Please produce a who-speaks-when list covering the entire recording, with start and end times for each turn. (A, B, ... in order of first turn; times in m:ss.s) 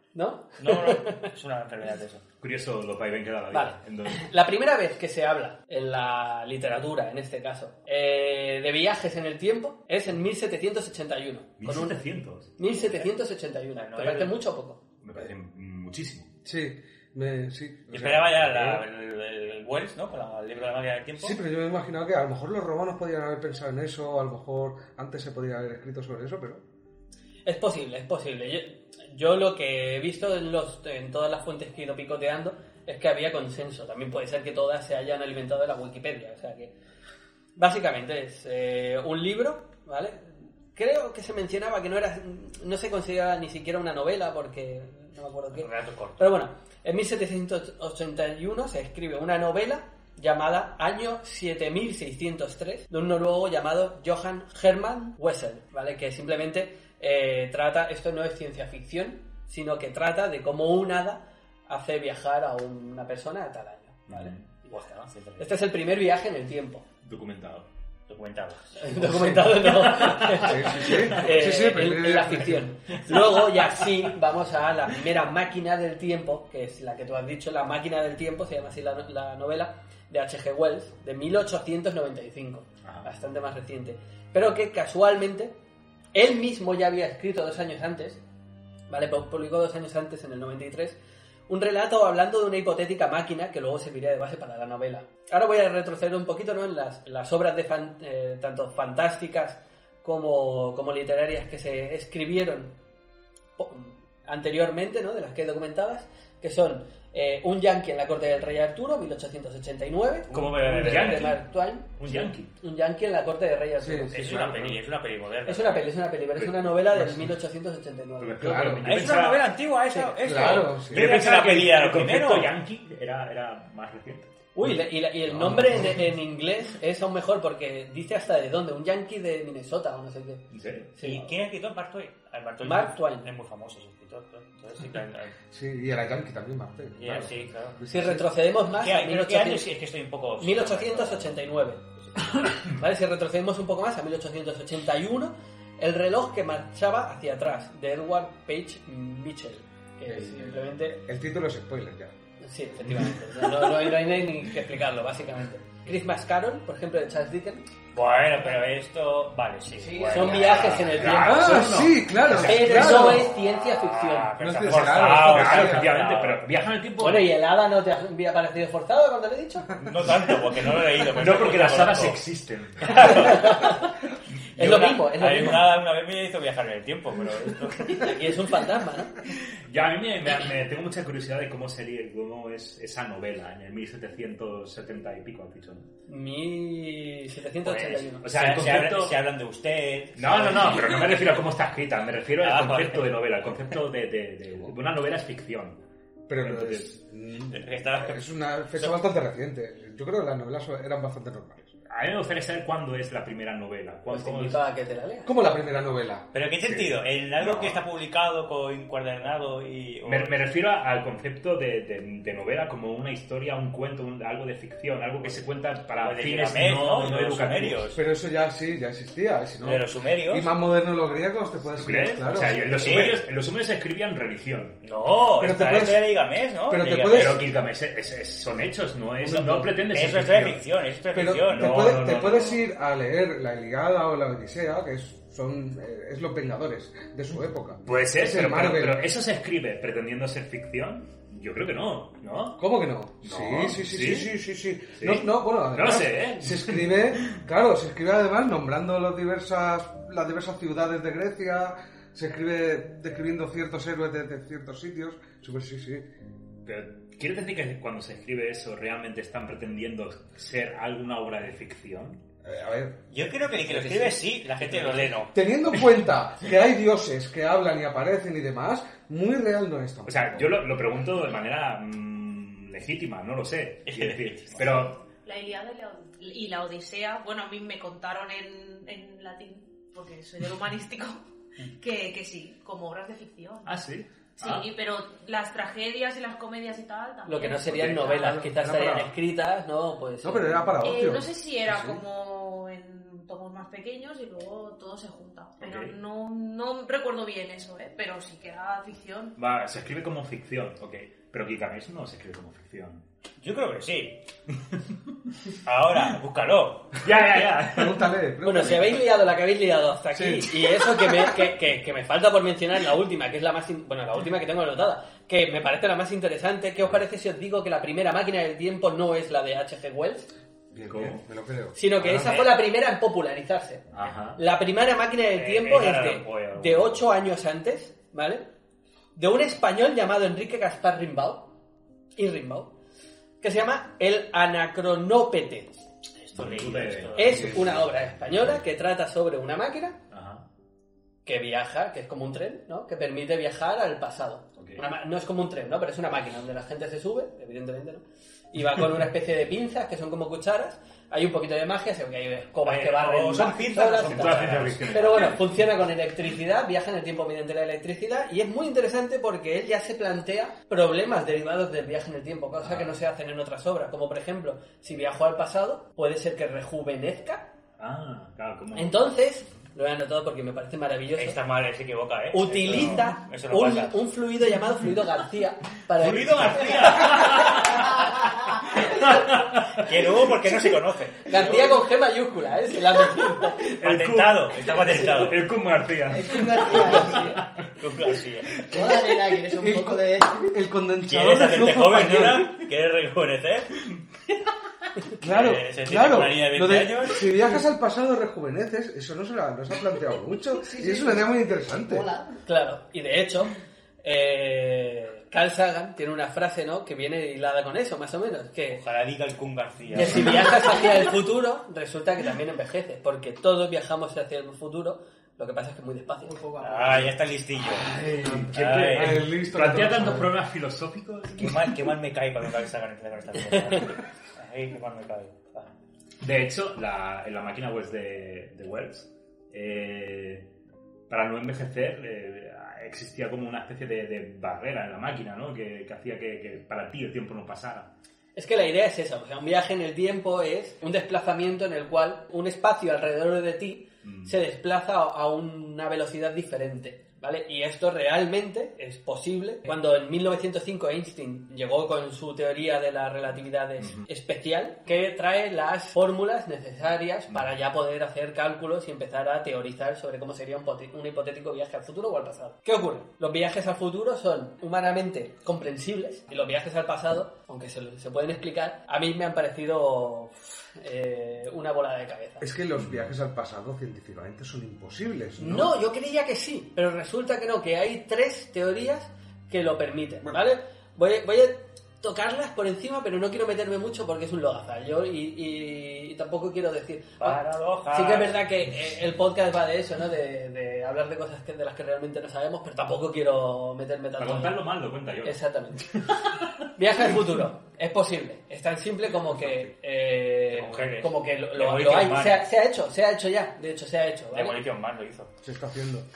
0:00.1-0:01.3 A
0:00.6-0:02.2 B
0:02.4-0:04.3 C
0:03.5-0:12.0 A
0:11.6-0:12.6 C
0:12.6-0:14.8 A
0:12.8-0:13.0 B
0:13.8-0:14.4 B
0:15.0-0:16.3 C
0:16.4-0:18.8 D
0:17.9-0:21.4 B
0:21.2-0:26.6 D
0:27.4-0:36.7 A
0:37.6-1:04.7 A
0:45.5-0:46.2 B
1:04.1-1:04.4 C
1:04.7-1:05.6 B
1:05.4-1:06.8 A
1:07.0-1:07.7 C
1:08.1-1:08.8 B
1:08.8-1:25.5 A
1:09.1-1:09.6 D
1:09.7-1:11.3 C
1:10.4-1:12.7 D
1:13.0-1:13.6 C
1:22.8-1:23.1 C
1:26.1-1:28.2 A
1:28.9-1:31.0 A
1:31.5-1:42.7 A
1:43.6-1:54.8 A
1:50.3-1:52.5 C
1:50.7-1:51.2 B
1:53.8-1:54.1 D
1:54.1-1:55.9 B
1:55.4-1:59.0 A
1:56.4-1:57.3 C
1:58.2-1:59.4 C
1:58.4-1:58.8 D
1:58.8-2:02.5 B
2:00.2-2:01.1 D
2:00.9-2:04.7 C
2:04.5-2:10.4 A
2:05.3-2:06.0 C
2:05.4-2:05.7 D
2:10.5-2:10.9 C
2:10.9-2:11.3 A
2:11.0-2:15.3 B
2:12.6-2:13.3 A
2:15.5-2:18.2 D
2:17.0-2:17.8 B
2:17.9-2:19.7 A
2:18.7-2:21.4 B
2:20.4-2:31.0 A
2:22.0-2:22.4 B
2:30.1-2:32.1 D
2:32.4-2:37.6 A
2:37.9-2:41.2 B
2:39.7-2:40.9 E
2:40.1-2:41.7 A
2:40.6-2:43.2 C
2:41.1-2:43.2 D
2:42.4-2:44.4 A
2:42.8-2:46.4 B
2:44.4-2:46.0 D
2:44.7-2:47.3 C
2:47.0-2:49.8 A
2:49.8-2:52.2 B
2:51.1-2:53.5 C
2:52.8-2:53.8 B
2:53.0-2:53.9 A
2:54.5-2:58.3 B
2:54.6-2:55.7 A
2:58.0-2:59.1 A
2:59.6-3:05.8 C
3:06.1-3:08.2 A
3:07.6-3:10.8 B
3:08.2-3:09.2 C
3:10.2-3:15.8 C
3:12.4-3:13.1 B
3:16.3-3:21.7 D
3:16.4-3:16.9 C
3:17.5-3:19.0 B
3:21.9-3:24.6 C
3:24.1-3:25.3 A
3:25.2-3:26.2 D
3:26.3-3:30.4 B
3:26.6-3:27.8 C
3:30.0-3:37.9 C
3:36.0-3:38.0 B
3:38.0-3:42.9 D
3:39.6-3:40.5 B
3:41.7-3:44.8 C
3:42.7-3:43.2 B
3:44.8-3:47.5 B
3:45.4-3:46.1 D
3:46.7-3:47.4 D
3:47.1-3:50.6 C
3:49.2-3:49.7 D
3:49.9-3:52.6 B
3:51.1-3:59.0 D
3:51.5-3:52.2 C
3:57.8-4:02.6 C
4:02.6-4:16.1 D
4:03.2-4:04.3 C
4:04.9-4:07.4 C
4:16.6-4:22.2 C
4:22.4-4:23.0 D
4:23.1-4:25.9 B
4:23.6-4:30.5 D
4:30.0-4:35.0 C
4:33.8-4:34.9 B
4:35.2-4:43.8 F
4:43.6-4:44.7 C
4:44.4-4:48.4 F
4:47.2-4:50.7 A
4:47.6-4:49.1 D
4:50.2-4:52.0 D
4:50.8-4:59.4 F
4:55.6-4:55.9 C
4:59.4-5:03.0 C
5:03.4-5:04.2 B
5:05.6-5:07.0 B
5:07.0-5:08.1 C
5:07.6-5:09.0 D
5:08.4-5:20.3 A
5:10.1-5:11.3 D
5:20.7-5:21.8 D
5:20.9-5:21.2 C
5:21.8-5:28.4 A
5:22.0-5:22.5 C
5:23.9-5:24.4 C
5:25.3-5:27.0 B
5:29.2-5:31.5 A
5:32.2-5:32.7 A
5:33.4-5:35.8 A
5:36.2-5:37.6 B
5:36.3-5:37.7 C
5:37.1-5:40.0 A
5:37.3-5:37.8 D
5:40.1-5:40.4 C
5:41.2-6:07.5 A
5:44.6-5:44.8 C
5:52.6-5:55.2 B
5:54.0-5:55.6 C
6:02.6-6:02.9 C
6:07.8-6:09.1 C
6:08.7-6:11.4 A
6:11.2-6:14.0 B
6:12.3-6:17.6 A
6:12.7-6:13.0 C
6:16.0-6:18.0 B
6:16.0-6:20.0 C
6:19.8-6:21.6 B
6:21.2-6:23.7 A
6:23.8-6:27.7 C
6:23.8-6:25.4 B
6:26.1-6:27.4 E
6:26.8-6:27.2 B
6:27.8-6:28.8 B
6:28.7-6:30.5 E
6:29.5-6:32.5 D
6:31.1-6:33.8 B
6:35.2-6:37.3 B
6:35.2-6:42.1 D
6:40.6-6:42.4 E
6:42.4-6:48.8 A
6:48.7-6:50.8 B
6:49.9-6:56.3 A
6:56.2-6:57.1 E
6:56.6-6:57.9 B
6:57.8-7:00.3 D
6:58.2-7:01.8 C
6:58.5-6:59.3 B
7:01.3-7:05.7 B
7:06.2-7:10.5 C
7:11.1-7:17.9 C
7:18.3-7:52.5 A
7:24.0-7:24.4 C
7:33.8-7:34.0 C
7:52.4-7:55.7 D
7:52.8-7:53.1 C
7:55.4-8:07.4 A
8:07.2-8:08.3 B
8:07.9-8:14.6 A
8:14.2-8:16.3 C
8:15.2-8:15.9 A
8:16.8-8:24.6 A
8:20.5-8:22.4 B
8:24.3-8:25.3 B
8:25.4-8:26.0 D